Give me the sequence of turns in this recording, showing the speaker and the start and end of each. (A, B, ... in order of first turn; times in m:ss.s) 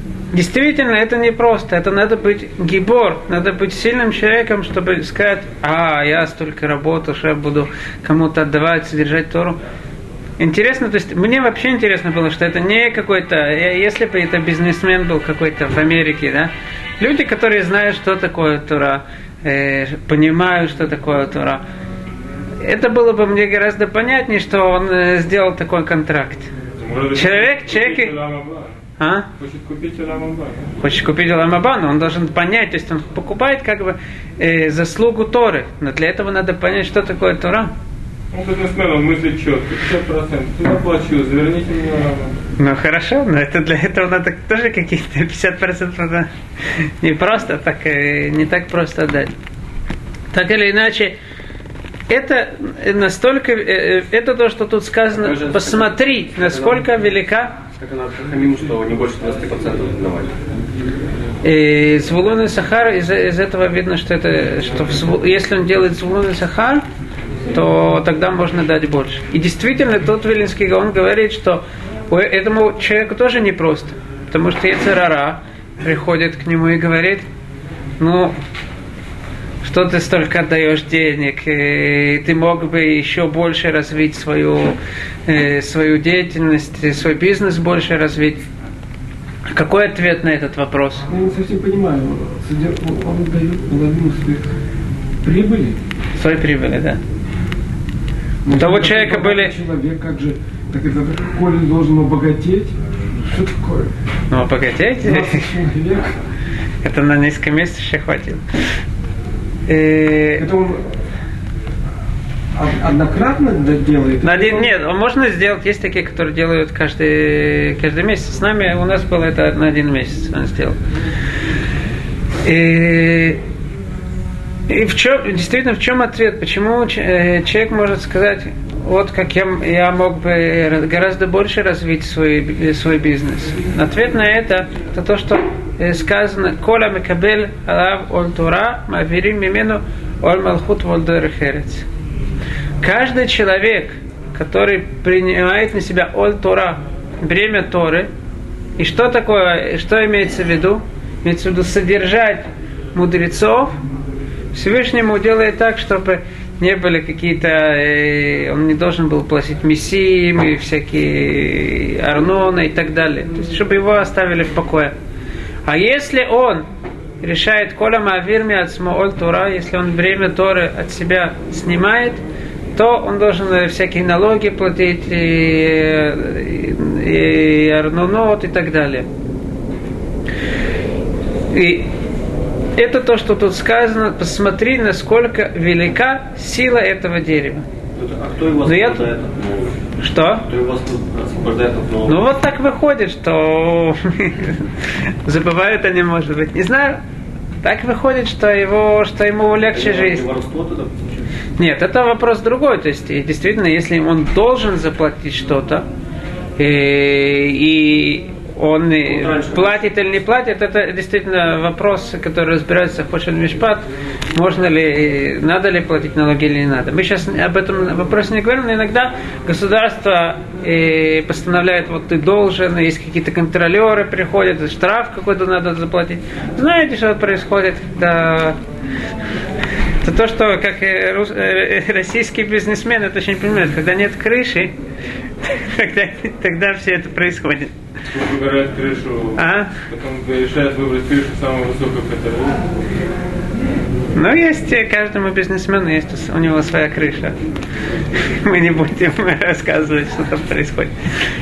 0:00.3-0:09.6 A
0:10.4-0:21.6 A
0:22.6-0:26.5 A
0:26.8-0:28.8 B
0:27.2-0:28.1 A
0:29.0-0:29.3 A
0:29.4-0:30.7 B
0:30.8-0:37.7 A
0:38.3-0:42.4 B
0:42.6-0:49.3 A
0:50.3-0:51.2 A
0:52.1-0:57.6 A
0:55.2-0:56.8 C
0:57.8-1:00.3 C
1:01.4-1:06.8 A
1:07.5-1:17.3 A
1:18.0-1:18.4 A
1:19.6-1:24.8 A
1:25.3-1:28.4 A
1:29.5-1:31.1 A
1:31.1-1:34.5 D
1:35.2-1:35.8 D
1:36.2-1:37.0 A
1:38.4-1:43.9 D
1:38.6-1:39.5 A
1:44.3-1:45.5 A
1:45.0-1:46.2 D
1:46.8-1:48.4 A
1:49.7-1:50.5 A
1:50.4-1:50.9 D
1:52.6-1:54.7 D
1:54.2-2:00.8 A
2:02.4-2:03.4 A
2:04.7-2:21.9 A
2:22.8-2:28.1 A
2:28.8-2:33.8 A
2:34.5-2:44.9 A
2:45.7-2:46.7 A
2:47.2-2:52.2 A
2:52.7-2:59.1 A
3:01.5-3:01.9 A
3:02.8-3:07.7 A
3:08.0-3:09.8 C
3:08.6-3:09.0 A
3:10.0-3:10.5 A
3:10.4-3:12.2 C
3:12.1-3:17.0 A
3:17.6-3:20.2 A
3:19.7-3:21.2 C
3:21.6-3:25.8 A
3:26.6-3:48.6 A
3:29.1-3:29.8 C
3:50.0-3:54.7 A
3:55.4-3:57.7 A
3:58.1-4:02.6 B
3:59.4-3:59.7 A
4:04.2-4:07.4 A
4:08.2-4:10.9 A